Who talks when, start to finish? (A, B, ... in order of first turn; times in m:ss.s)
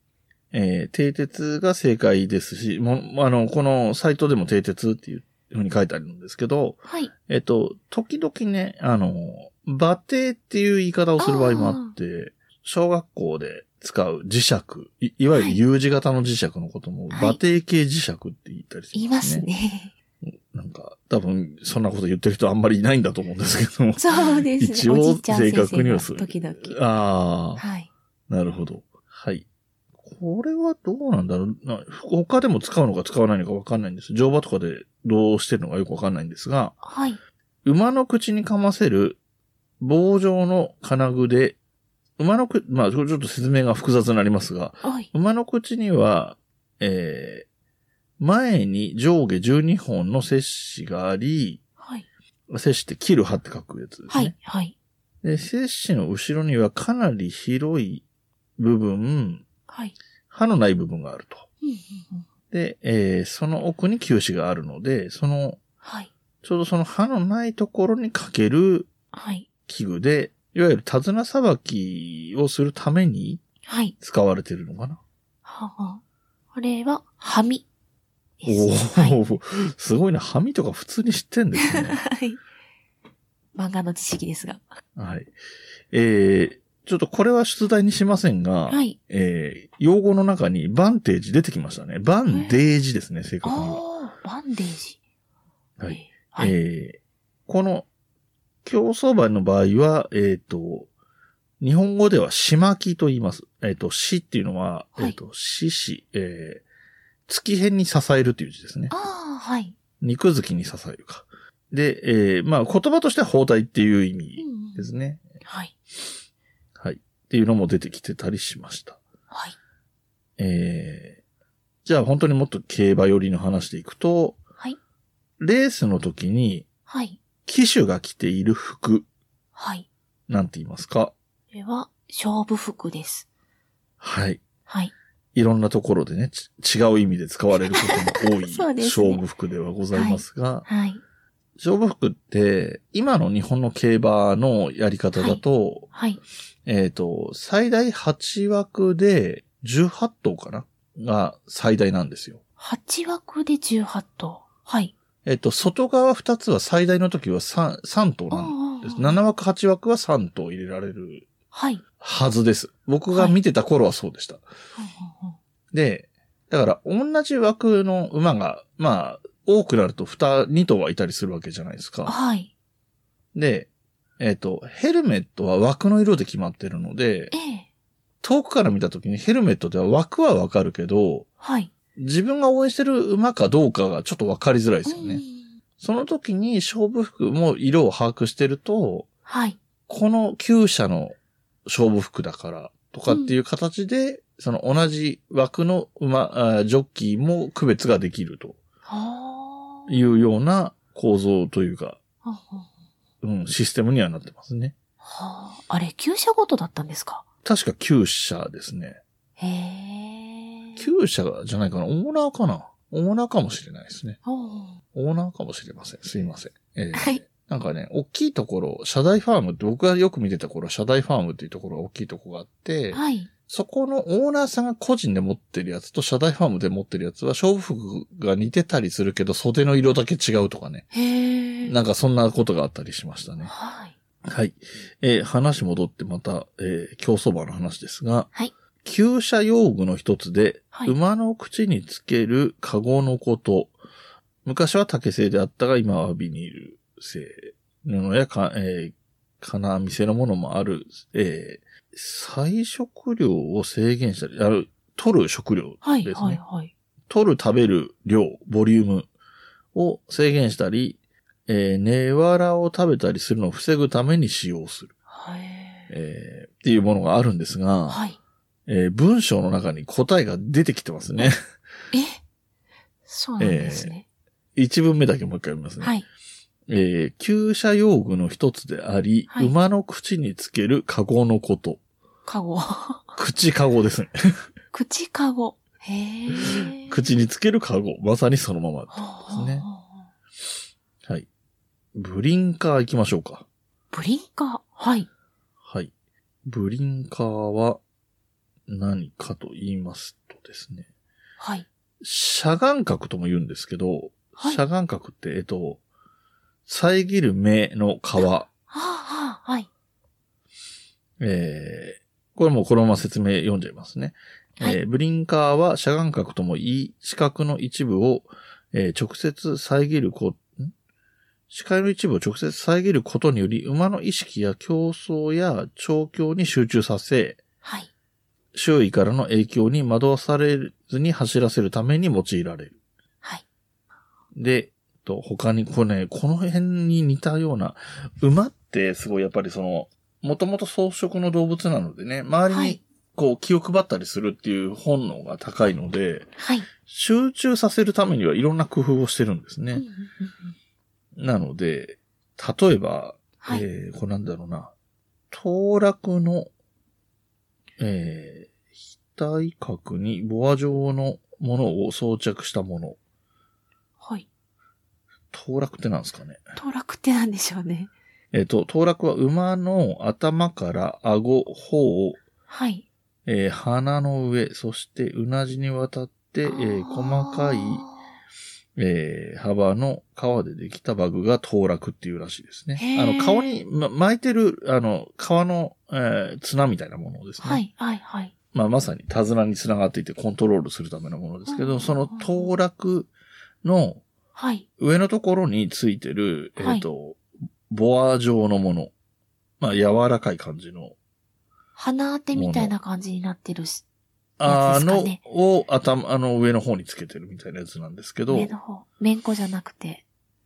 0:00.5-0:19.5 A
0:06.9-0:07.1 B
0:11.2-0:11.9 B
0:15.3-0:15.6 B
0:17.1-0:17.4 B
0:18.9-0:19.9 B
0:20.2-0:27.6 A
0:24.0-0:26.8 B
0:27.6-0:27.9 B
0:28.3-0:29.5 A
0:30.0-0:36.8 A
0:36.8-0:37.2 B
0:37.6-0:39.2 A
0:39.8-0:41.6 A
0:42.2-0:47.5 A
0:44.8-0:45.1 B
0:48.2-0:51.6 A
0:51.8-0:52.0 B
0:52.5-0:54.4 A
0:54.1-0:54.7 B
0:55.2-0:58.0 A
0:58.6-0:59.4 A
0:59.7-0:59.9 B
1:00.3-1:01.5 A
1:01.6-1:02.2 B
1:02.5-1:05.6 A
1:05.8-1:06.1 B
1:06.4-1:08.9 A
1:09.1-1:09.5 B
1:09.7-1:13.4 A
1:13.6-1:13.9 B
1:14.0-1:15.0 A
1:15.4-1:16.0 B
1:16.5-1:17.6 B
1:18.4-1:19.2 B
1:18.4-1:22.0 A
1:21.7-1:22.4 B
1:23.5-1:24.6 B
1:25.0-1:25.3 A
1:25.9-1:33.8 A
1:28.7-1:29.0 B
1:32.3-1:32.6 B
1:33.4-1:35.0 B
1:35.8-1:37.9 A
1:35.9-1:36.5 B
1:38.6-1:40.9 A
1:41.6-1:46.6 A
1:47.3-1:48.9 A
1:48.9-1:49.7 B
1:50.0-1:55.3 A
1:54.4-1:54.9 B
1:55.4-1:55.7 B
1:56.8-1:59.0 A
1:59.3-1:59.6 B
2:00.4-2:01.2 A
2:01.8-2:04.4 A
2:05.4-2:06.7 A
2:06.9-2:07.2 B
2:07.4-2:09.0 A
2:09.6-2:09.9 B
2:10.3-2:11.1 A
2:11.5-2:13.3 B
2:14.0-2:14.4 A
2:14.7-2:14.9 B
2:15.3-2:20.7 A
2:17.5-2:19.2 B
2:19.9-2:21.0 B
2:21.6-2:25.9 A
2:25.2-2:25.4 B
2:25.9-2:26.2 B
2:26.6-2:32.4 A
2:32.6-2:34.9 B
2:35.2-2:41.3 A
2:38.3-2:39.2 B
2:41.5-2:41.8 B
2:42.0-2:44.4 A
2:43.1-2:43.4 B
2:44.8-2:45.4 B
2:45.7-2:52.2 A
2:52.0-2:52.5 B
2:53.3-2:57.3 A
2:57.3-2:57.6 B
2:58.2-3:01.3 A
3:01.4-3:01.7 B
3:02.0-3:05.2 A
3:04.8-3:05.4 B
3:05.8-3:09.1 A
3:09.3-3:09.6 B
3:09.9-3:18.6 A
3:13.1-3:13.4 B
3:18.8-3:20.3 B
3:19.9-3:22.0 A
3:22.2-3:22.7 B
3:23.2-3:24.7 A
3:25.0-3:27.2 B
3:27.4-3:29.0 A
3:29.4-3:30.8 B
3:30.8-3:34.2 A
3:34.2-3:34.8 B
3:34.9-3:50.9 A
3:36.9-3:37.2 B
3:42.9-3:43.3 B
3:50.9-3:51.7 B
3:51.6-3:53.5 A
3:53.4-3:53.9 B
3:54.3-3:58.3 A
3:58.8-4:03.7 A
4:04.4-4:16.4 A
4:15.8-4:16.7 B
4:17.1-4:19.1 A
4:19.7-4:24.9 A
4:25.1-4:25.9 B
4:25.9-4:28.0 A
4:27.9-4:28.2 B
4:28.7-4:31.4 A
4:31.9-4:32.2 B
4:33.1-4:34.0 B
4:33.4-4:33.9 A
4:34.6-4:35.9 A
4:35.8-4:36.0 B
4:36.7-4:41.8 A
4:42.2-4:43.0 B
4:43.2-4:44.1 A
4:44.7-4:47.2 B
4:46.3-4:49.6 A
4:48.9-4:49.9 B
4:51.9-4:53.5 A
4:53.9-4:55.1 B
4:55.6-4:55.9 A
4:56.4-4:57.8 A
4:58.7-5:00.9 A
5:01.4-5:01.6 B
5:02.0-5:05.8 A
5:06.6-5:08.5 A
5:08.7-5:09.7 B
5:11.2-5:20.7 A
5:21.5-5:27.4 A
5:27.6-5:27.9 B
5:28.5-5:32.8 A
5:34.4-5:49.8 A
5:42.5-5:42.8 B
5:46.4-5:46.7 B
5:49.7-5:50.5 B
5:51.2-5:54.7 A
5:53.4-5:53.6 B
5:55.3-5:56.5 A
5:57.8-5:58.6 A
5:59.1-6:03.0 A
6:04.0-6:04.3 B
6:05.3-6:06.4 A
6:06.6-6:07.9 B
6:08.3-6:12.2 A
6:12.5-6:12.8 B
6:13.2-6:17.8 A
6:16.5-6:18.0 B
6:18.8-6:27.6 A
6:22.8-6:23.6 B
6:27.4-6:28.3 B
6:28.5-6:33.1 A
6:31.5-6:32.5 B
6:33.6-6:34.0 A
6:34.3-6:34.6 B
6:34.8-6:38.9 A
6:36.6-6:36.8 B
6:39.6-6:41.0 A
6:41.8-6:43.8 B
6:42.3-6:42.8 A
6:44.4-6:48.6 A
6:44.4-6:45.2 B
6:48.3-6:50.0 B